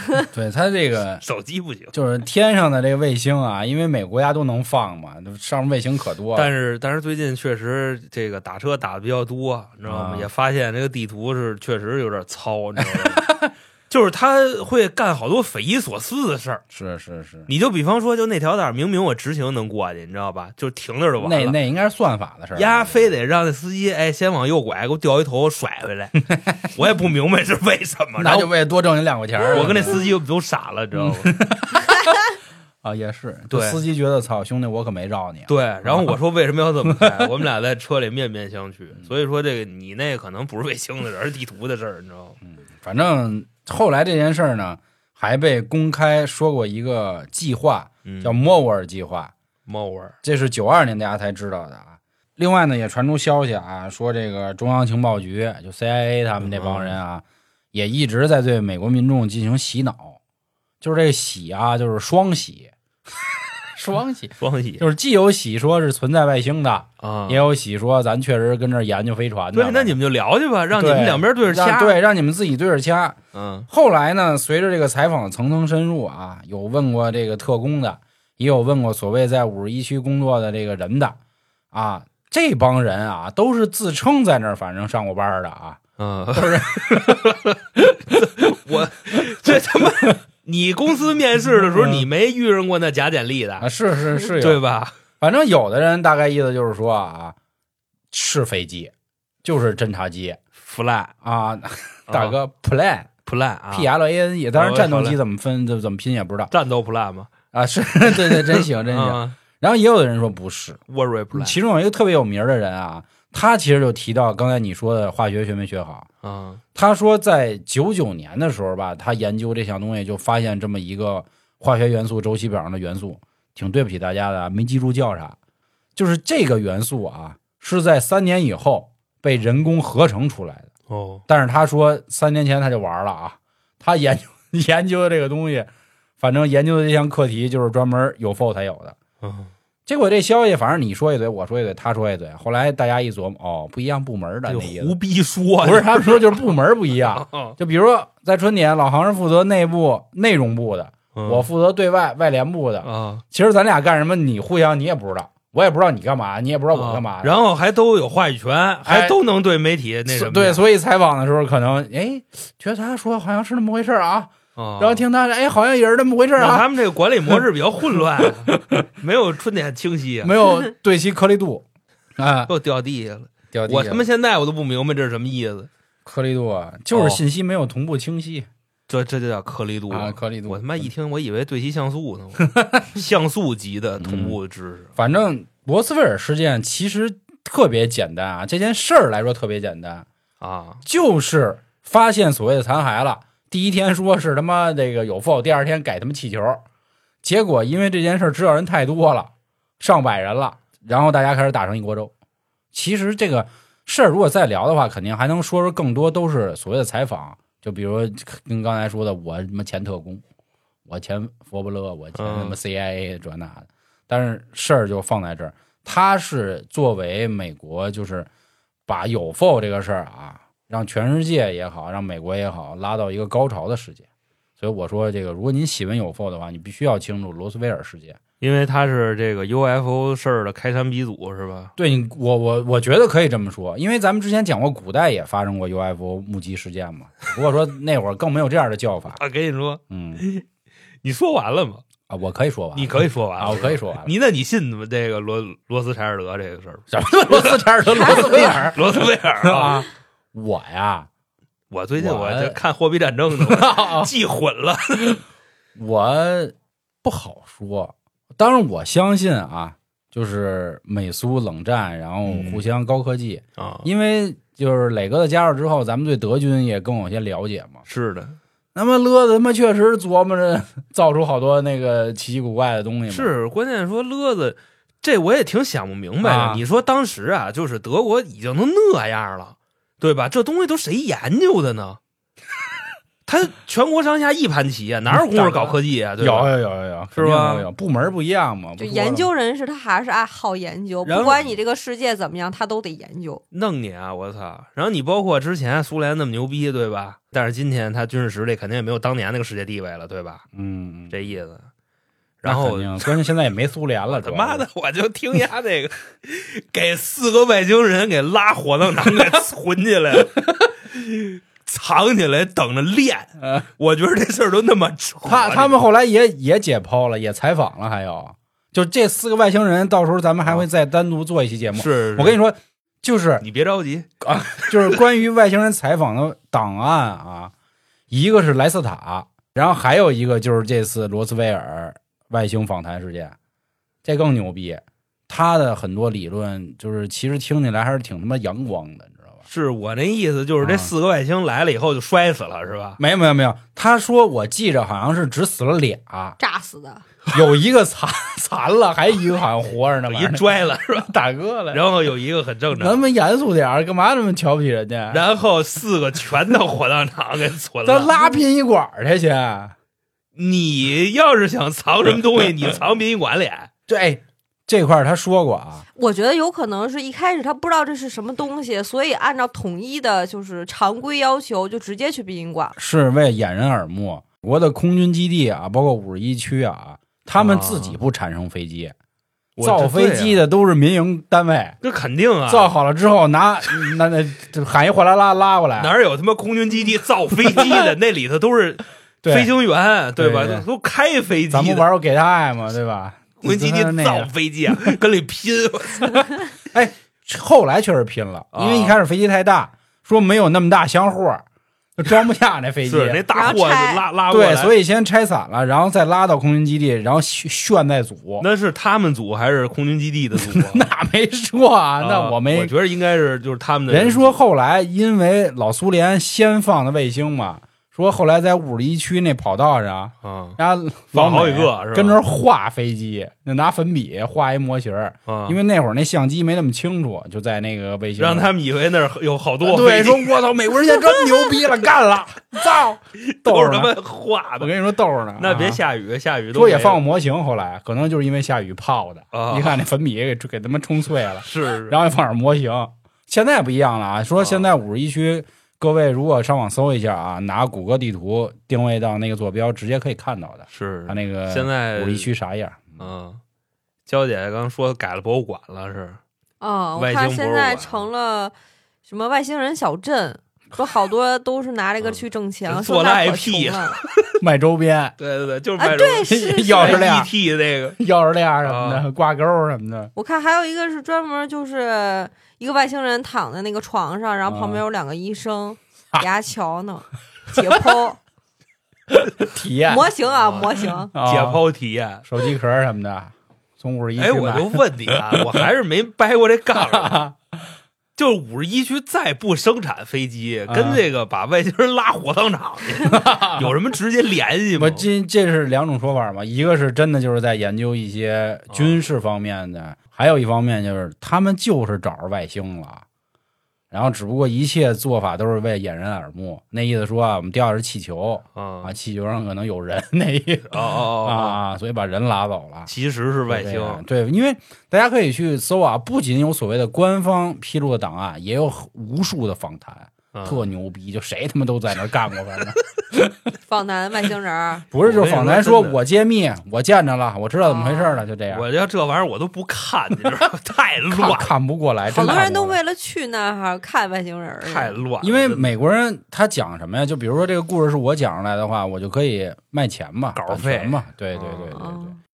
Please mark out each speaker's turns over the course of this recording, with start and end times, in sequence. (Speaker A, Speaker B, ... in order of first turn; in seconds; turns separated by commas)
Speaker A: 0.3-1.2, Speaker B: 1.2-1.9, Speaker A: 1.9-6.5, Speaker B: 6.3-13.2, Speaker A: 9.8-10.3, Speaker A: 12.8-13.5, Speaker B: 13.9-16.6, Speaker A: 16.7-17.5, Speaker B: 17.5-21.6, Speaker A: 21.2-23.1, Speaker B: 22.5-28.5, Speaker A: 28.2-30.0, Speaker B: 29.5-31.3, Speaker A: 30.9-32.2, Speaker A: 32.8-36.1, Speaker B: 33.5-33.8, Speaker B: 35.5-42.4, Speaker A: 36.9-37.3, Speaker A: 42.5-49.3, Speaker B: 48.0-48.4, Speaker B: 49.6-50.2, Speaker A: 50.2-60.2, Speaker B: 56.4-57.0, Speaker A: 60.8-62.7, Speaker A: 63.7-70.0, Speaker B: 64.4-64.8, Speaker B: 67.0-67.4, Speaker B: 69.5-72.0, Speaker A: 70.7-73.2, Speaker B: 73.3-73.7, Speaker A: 73.7-81.2, Speaker A: 81.7-85.8, Speaker B: 86.0-87.6, Speaker A: 86.3-88.3, Speaker B: 88.1-93.7, Speaker A: 91.5-92.0, Speaker A: 93.6-94.6, Speaker B: 94.4-95.0, Speaker A: 95.2-97.3, Speaker A: 98.1-98.9, Speaker A: 99.4-100.4, Speaker B: 100.6-101.1, Speaker A: 101.2-103.1, Speaker B: 102.1-102.4, Speaker B: 103.2-103.9, Speaker A: 103.7-106.5, Speaker B: 104.5-105.2, Speaker B: 106.5-107.3, Speaker A: 107.5-110.8, Speaker B: 108.1-109.3, Speaker B: 110.9-111.6, Speaker A: 111.3-116.1, Speaker B: 116.2-116.6, Speaker A: 116.7-125.3, Speaker A: 126.0-130.7, Speaker B: 130.9-131.2, Speaker A: 131.3-135.7, Speaker A: 136.2-138.9, Speaker B: 139.2-139.5, Speaker A: 139.9-144.9, Speaker B: 144.5-146.4, Speaker A: 145.6-157.3, Speaker B: 147.1-147.6, Speaker B: 151.1-151.5, Speaker B: 152.8-153.2, Speaker B: 156.7-160.6, Speaker A: 158.8-159.2, Speaker A: 160.1-166.7, Speaker B: 164.6-165.0, Speaker B: 166.4-170.3, Speaker A: 167.9-168.8, Speaker A: 170.2-171.6, Speaker A: 172.2-172.5, Speaker B: 172.5-175.7, Speaker A: 173.5-174.1, Speaker A: 176.0-178.5, Speaker B: 176.9-177.2, Speaker B: 178.9-184.9, Speaker A: 179.9-180.9, Speaker A: 182.4-182.8, Speaker A: 184.0-184.4, Speaker A: 184.9-190.1, Speaker B: 190.4-190.8, Speaker A: 190.8-196.6, Speaker A: 197.2-202.1, Speaker A: 202.7-210.2, Speaker A: 210.8-218.3, Speaker B: 212.1-212.6, Speaker A: 218.9-224.0, Speaker A: 224.6-228.2, Speaker B: 228.4-231.7, Speaker A: 231.8-239.2, Speaker B: 239.2-240.4, Speaker A: 239.9-240.2, Speaker B: 241.0-241.8, Speaker A: 242.1-244.1, Speaker B: 242.7-249.8, Speaker A: 246.9-251.1, Speaker B: 251.7-255.2, Speaker A: 252.0-252.6, Speaker A: 253.3-254.1, Speaker A: 255.8-267.8, Speaker B: 262.2-262.6, Speaker B: 263.6-263.9, Speaker B: 267.9-268.4, Speaker A: 268.7-273.3, Speaker B: 273.1-282.0, Speaker A: 276.2-276.6, Speaker B: 283.2-286.5, Speaker A: 285.1-289.3, Speaker B: 287.1-287.7, Speaker C: 288.8-293.4, Speaker B: 291.0-291.5, Speaker B: 293.5-300.4, Speaker A: 300.5-301.1, Speaker B: 301.1-301.7, Speaker B: 302.4-303.2, Speaker A: 302.4-304.7, Speaker B: 304.1-315.8, Speaker A: 315.2-323.4, Speaker B: 321.7-322.4, Speaker B: 323.4-324.1, Speaker A: 324.2-327.5, Speaker A: 328.1-333.4, Speaker A: 334.0-339.4, Speaker B: 339.5-343.0, Speaker A: 340.6-340.9, Speaker A: 343.0-346.4, Speaker C: 346.4-347.0, Speaker A: 347.3-350.4, Speaker B: 350.1-351.1, Speaker A: 351.1-351.8, Speaker B: 351.7-353.0, Speaker A: 352.8-355.2, Speaker B: 355.1-358.1, Speaker A: 357.8-359.7, Speaker B: 360.4-363.7, Speaker A: 363.9-365.8, Speaker C: 365.9-372.8, Speaker A: 372.8-378.9, Speaker B: 377.3-378.0, Speaker B: 379.6-380.4, Speaker A: 379.6-381.8, Speaker B: 381.8-382.7, Speaker A: 382.5-385.9, Speaker B: 385.8-391.9, Speaker A: 387.5-387.9, Speaker A: 389.2-389.5, Speaker A: 390.2-390.6, Speaker A: 391.5-394.3, Speaker B: 393.4-396.3, Speaker A: 396.2-401.4, Speaker B: 398.5-398.9, Speaker A: 402.0-403.2, Speaker B: 402.9-404.7, Speaker C: 403.3-404.1, Speaker A: 404.3-408.4, Speaker B: 408.4-410.9, Speaker A: 410.3-412.7, Speaker B: 412.0-414.4, Speaker A: 413.9-428.5, Speaker B: 420.2-420.6, Speaker B: 421.1-422.2, Speaker B: 425.3-425.6, Speaker B: 428.2-430.4, Speaker A: 429.6-434.0, Speaker B: 433.2-434.7, Speaker A: 434.6-435.8, Speaker B: 435.4-437.0, Speaker A: 436.5-453.1, Speaker B: 439.3-439.8, Speaker B: 441.4-441.9, Speaker B: 444.4-444.7, Speaker B: 450.7-452.3, Speaker B: 453.0-453.4, Speaker B: 454.1-456.2, Speaker C: 456.6-458.5, Speaker B: 456.9-458.1, Speaker C: 459.1-464.0, Speaker B: 462.0-464.4, Speaker A: 464.4-465.1, Speaker B: 465.2-468.0, Speaker C: 465.8-467.1, Speaker A: 466.3-467.3, Speaker A: 468.0-470.1, Speaker B: 468.6-469.0, Speaker C: 470.1-478.2, Speaker A: 474.4-474.8, Speaker A: 479.4-480.1, Speaker C: 479.9-481.1, Speaker B: 480.3-482.2, Speaker A: 481.1-481.6, Speaker A: 482.2-485.6, Speaker B: 484.2-487.2, Speaker A: 486.8-487.4, Speaker B: 488.2-495.1, Speaker A: 490.7-491.0, Speaker A: 493.0-493.7, Speaker A: 494.8-503.0, Speaker B: 498.7-499.0, Speaker A: 503.9-512.9, Speaker B: 508.5-508.9, Speaker B: 510.7-511.6, Speaker B: 512.9-514.0, Speaker A: 513.5-523.3, Speaker B: 520.3-520.6, Speaker C: 523.6-524.9, Speaker A: 524.9-528.6, Speaker B: 525.0-526.0, Speaker C: 527.6-528.2, Speaker B: 528.5-531.5, Speaker A: 531.1-532.8, Speaker C: 532.1-535.0, Speaker B: 534.6-535.7, Speaker A: 535.2-542.1, Speaker B: 540.3-541.7, Speaker C: 541.7-542.2